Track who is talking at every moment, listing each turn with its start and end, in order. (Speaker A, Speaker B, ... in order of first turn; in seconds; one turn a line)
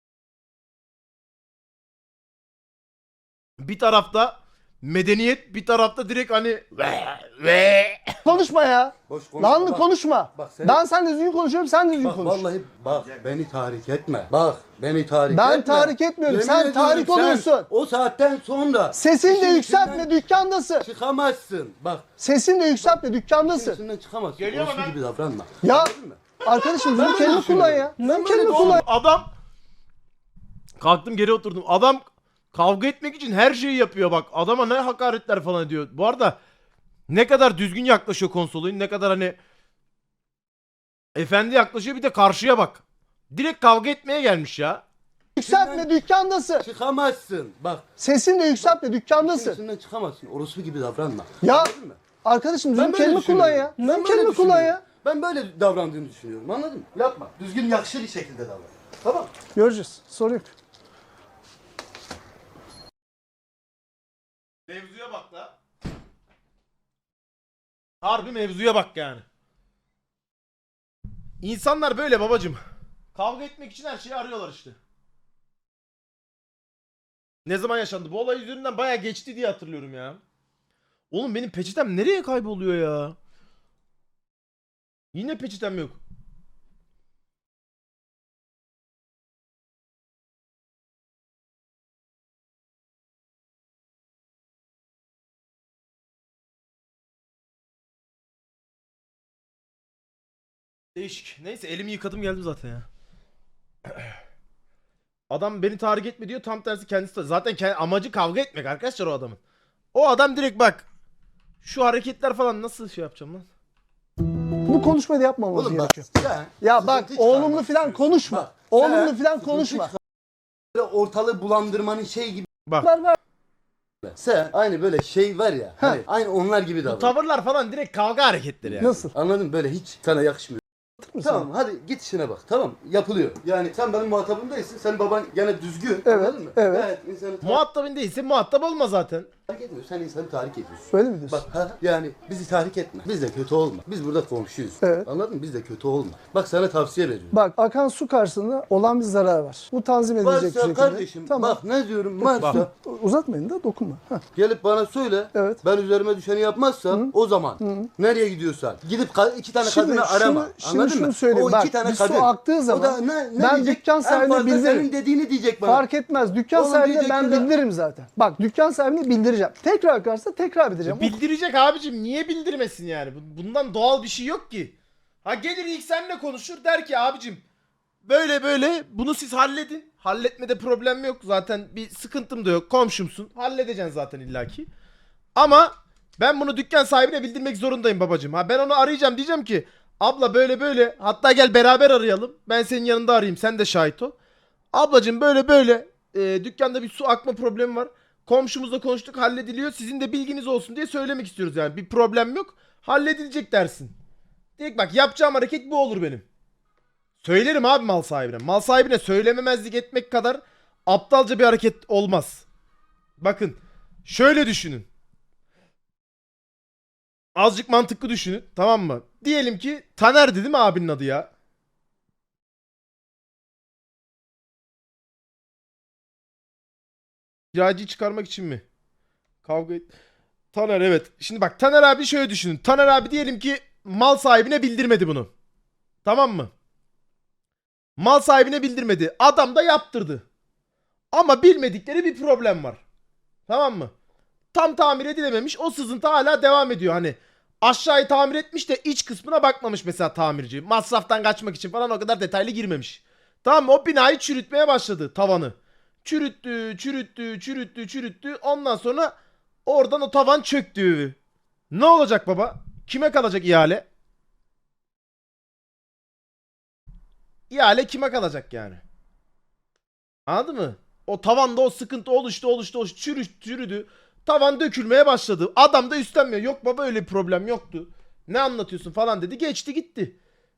Speaker A: 3.6-8.2
Speaker B: 8.2-12.4
Speaker C: 9.1-10.8
Speaker C: 12.0-20.1
Speaker B: 15.3-17.7
Speaker B: 18.9-20.9
Speaker C: 20.8-22.1
Speaker B: 22.2-23.8
Speaker C: 22.8-26.2
Speaker A: 24.4-25.0
Speaker B: 25.6-28.8
Speaker C: 26.9-28.8
Speaker A: 27.0-29.3
Speaker A: 30.8-36.4
Speaker A: 37.1-39.4
Speaker A: 41.1-44.8
Speaker B: 45.4-46.7
Speaker C: 45.4-45.9
Speaker C: 46.6-47.8
Speaker B: 48.0-49.6
Speaker C: 48.6-52.0
Speaker B: 51.4-51.7
Speaker B: 52.2-54.8
Speaker C: 52.8-59.3
Speaker B: 59.5-60.5
Speaker A: 64.7-65.5
Speaker A: 68.0-69.2
Speaker A: 71.4-72.6
Speaker A: 73.2-74.8
Speaker A: 77.5-80.2
Speaker A: 81.1-83.2
Speaker A: 85.1-86.0
Speaker A: 101.0-102.9
Speaker A: 105.3-109.4
Speaker A: 109.9-110.9
Speaker A: 111.6-113.5
Speaker B: 114.7-116.1
Speaker C: 115.5-120.0
Speaker B: 116.6-119.9
Speaker C: 120.7-122.5
Speaker B: 122.8-123.2
Speaker C: 124.0-127.1
Speaker A: 126.8-128.9
Speaker C: 128.6-130.6
Speaker B: 128.8-129.1
Speaker B: 131.0-131.5
Speaker C: 131.2-137.6
Speaker B: 136.1-136.9
Speaker A: 137.4-139.3
Speaker C: 139.5-147.4
Speaker B: 140.9-141.4
Speaker B: 144.8-145.1
Speaker B: 147.3-151.6
Speaker C: 150.2-152.7
Speaker B: 152.2-154.2
Speaker C: 154.3-165.9
Speaker B: 155.3-155.6
Speaker B: 156.9-157.9
Speaker B: 159.6-164.9
Speaker B: 165.6-171.2
Speaker C: 166.5-167.5
Speaker A: 170.8-177.4
Speaker A: 178.1-184.7
Speaker A: 185.4-194.2
Speaker A: 194.7-203.9
Speaker A: 204.6-206.2
Speaker A: 207.2-212.4
Speaker A: 213.2-214.9
Speaker A: 217.3-221.3
Speaker A: 227.5-228.6
Speaker A: 229.4-229.9
Speaker A: 230.5-235.3
Speaker A: 236.1-236.5
Speaker A: 238.0-240.2
Speaker A: 241.1-242.8
Speaker A: 243.5-243.9
Speaker A: 244.5-259.1
Speaker A: 259.7-261.2
Speaker A: 261.7-263.9
Speaker A: 267.5-268.8
Speaker A: 270.3-280.2